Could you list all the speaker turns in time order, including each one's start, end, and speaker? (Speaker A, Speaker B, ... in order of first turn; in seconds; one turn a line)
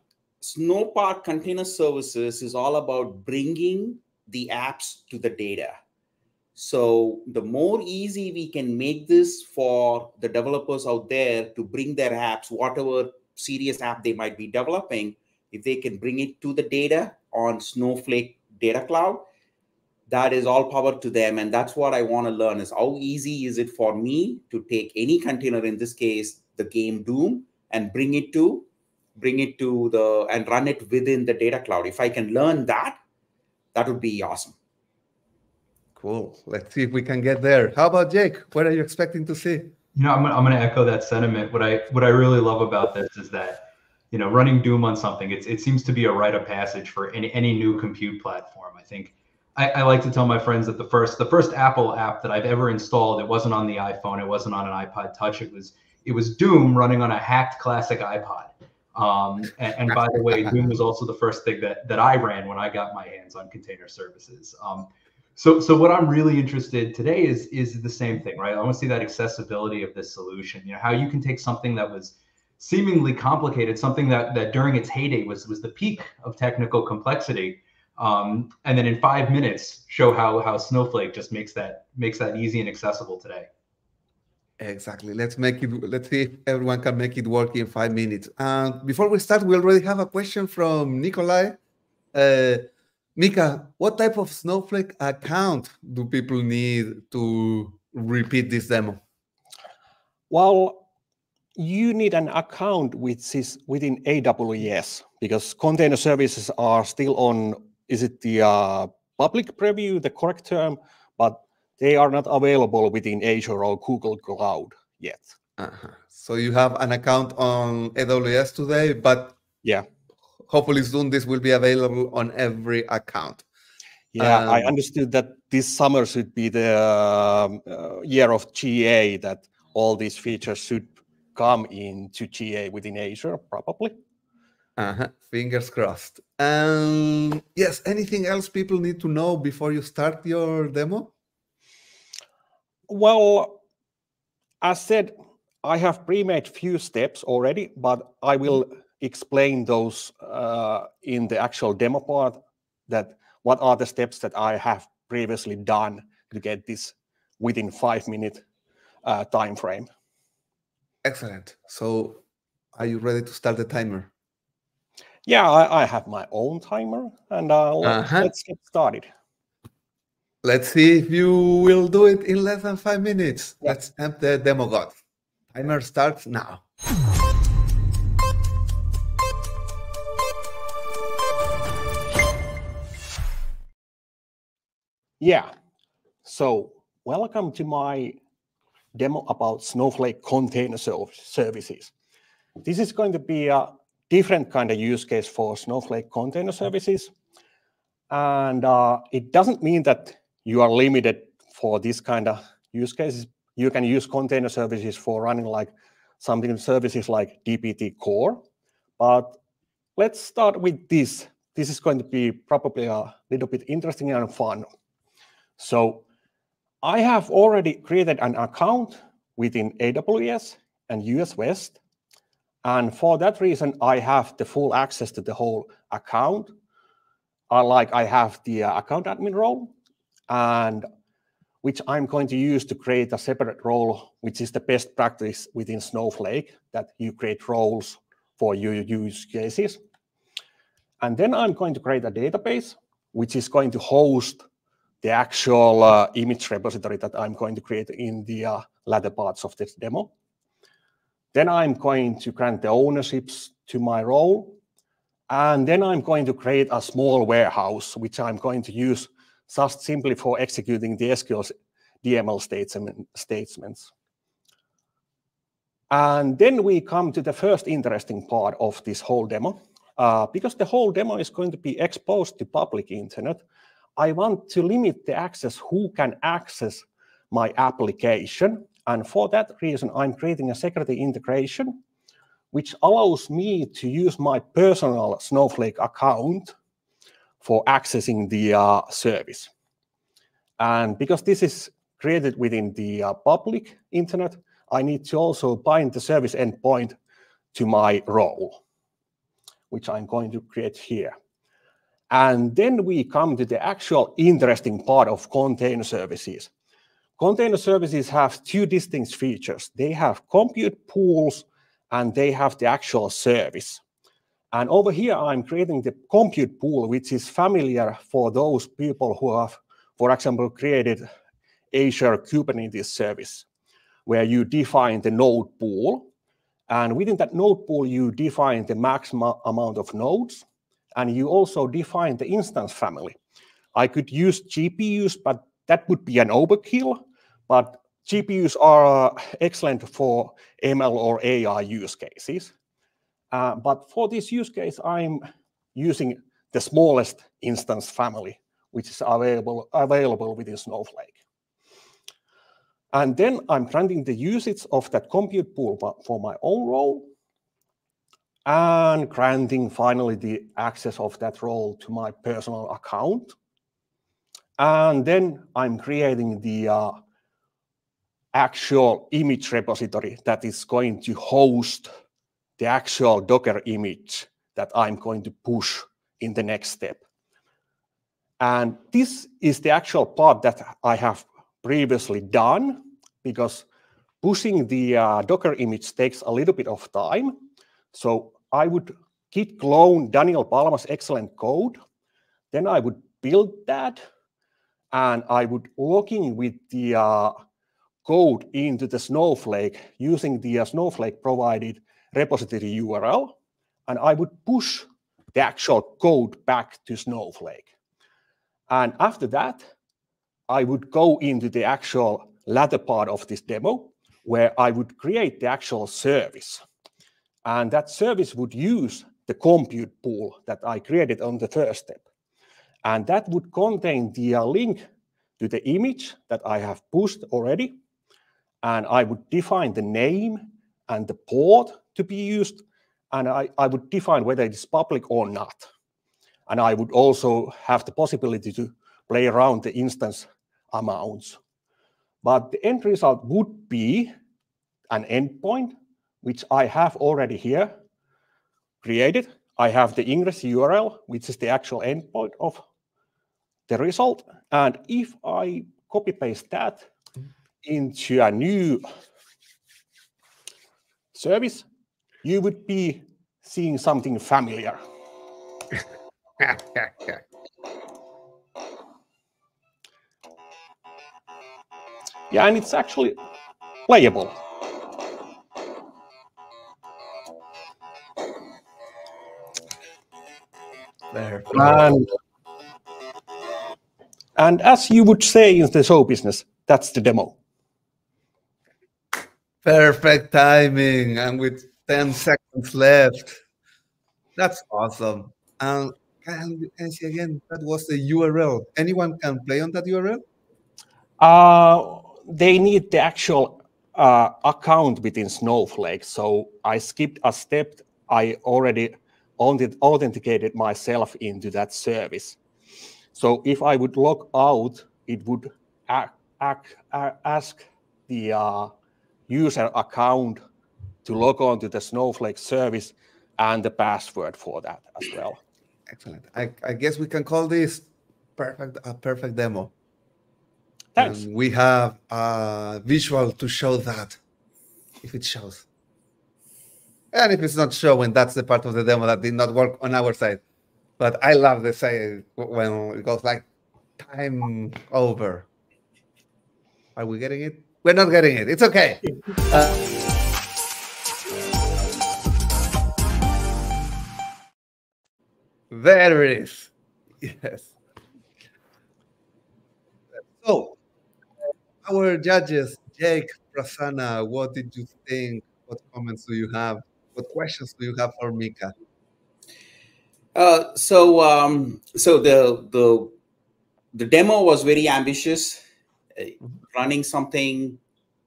Speaker A: 0.4-5.8
Speaker A: 6.6-19.3
Speaker A: 20.1-28.7
Speaker A: 29.2-33.0
Speaker A: 33.7-34.5
Speaker B: 36.0-39.7
Speaker C: 40.0-83.5
Speaker B: 84.6-91.6
Speaker B: 92.1-92.6
Speaker B: 93.2-99.0
Speaker D: 100.3-100.8
Speaker D: 101.6-115.4
Speaker B: 115.6-119.4
Speaker B: 120.5-123.5
Speaker D: 124.1-134.0
Speaker B: 124.2-124.7
Speaker B: 134.8-141.1
Speaker D: 142.9-143.6
Speaker D: 144.6-158.4
Speaker D: 159.0-159.9
Speaker B: 161.0-162.2
Speaker B: 162.8-164.1
Speaker D: 165.3-169.1
Speaker B: 167.8-168.3
Speaker B: 170.4-175.0
Speaker B: 175.5-176.6
Speaker D: 185.2-185.5
Speaker D: 186.2-188.2
Speaker D: 188.9-191.9
Speaker D: 192.6-197.1
Speaker D: 198.1-208.4
Speaker D: 209.0-209.4
Speaker D: 210.0-214.7
Speaker D: 215.6-216.0
Speaker D: 216.8-221.8
Speaker D: 222.6-226.5
Speaker D: 227.5-229.7
Speaker D: 230.3-230.9
Speaker D: 231.6-239.8
Speaker D: 241.0-244.4
Speaker D: 245.0-250.1
Speaker D: 251.3-254.6
Speaker D: 255.3-263.9
Speaker D: 265.9-273.4
Speaker D: 274.0-281.8
Speaker D: 282.5-286.5
Speaker D: 287.4-289.5
Speaker D: 290.6-297.0
Speaker D: 297.5-298.6
Speaker D: 299.7-301.1
Speaker D: 302.1-306.5
Speaker D: 307.2-313.8
Speaker D: 314.5-321.1
Speaker D: 321.7-323.5
Speaker D: 324.1-326.1
Speaker D: 326.7-330.4
Speaker D: 330.9-333.2
Speaker D: 333.8-342.5
Speaker D: 343.3-345.2
Speaker D: 345.8-351.2
Speaker D: 352.9-357.1
Speaker D: 358.5-363.4
Speaker D: 364.6-367.0
Speaker D: 368.3-371.9
Speaker D: 372.6-377.0
Speaker D: 378.4-383.7
Speaker D: 384.2-387.4
Speaker D: 387.9-391.8
Speaker D: 392.5-394.0
Speaker D: 394.9-397.4
Speaker D: 398.1-403.4
Speaker D: 403.9-407.7
Speaker D: 408.7-409.7
Speaker D: 410.5-416.6
Speaker D: 417.5-422.1
Speaker D: 422.8-424.8
Speaker D: 425.4-427.8
Speaker D: 428.6-435.7
Speaker D: 436.5-441.4
Speaker D: 442.2-444.1
Speaker D: 444.9-447.7
Speaker D: 448.8-452.6
Speaker D: 453.7-456.9
Speaker D: 457.6-458.9
Speaker D: 461.1-461.7
Speaker D: 462.2-464.8
Speaker B: 466.4-467.2
Speaker D: 472.3-473.2
Speaker D: 473.9-474.4
Speaker B: 481.1-481.9
Speaker D: 481.5-482.1
Speaker D: 484.4-487.4
Speaker B: 489.6-493.4
Speaker B: 494.4-500.2
Speaker D: 501.2-512.4
Speaker D: 513.1-518.7
Speaker D: 519.3-520.4
Speaker D: 521.0-525.4
Speaker B: 525.9-529.7
Speaker D: 531.0-531.3
Speaker B: 531.0-534.2
Speaker B: 535.0-535.7
Speaker B: 537.1-540.4
Speaker B: 541.0-543.5
Speaker B: 544.0-545.5
Speaker B: 547.0-549.9
Speaker B: 555.7-557.7
Speaker B: 560.2-560.8
Speaker B: 561.9-568.7
Speaker A: 570.4-573.1
Speaker A: 573.9-575.6
Speaker A: 576.2-577.8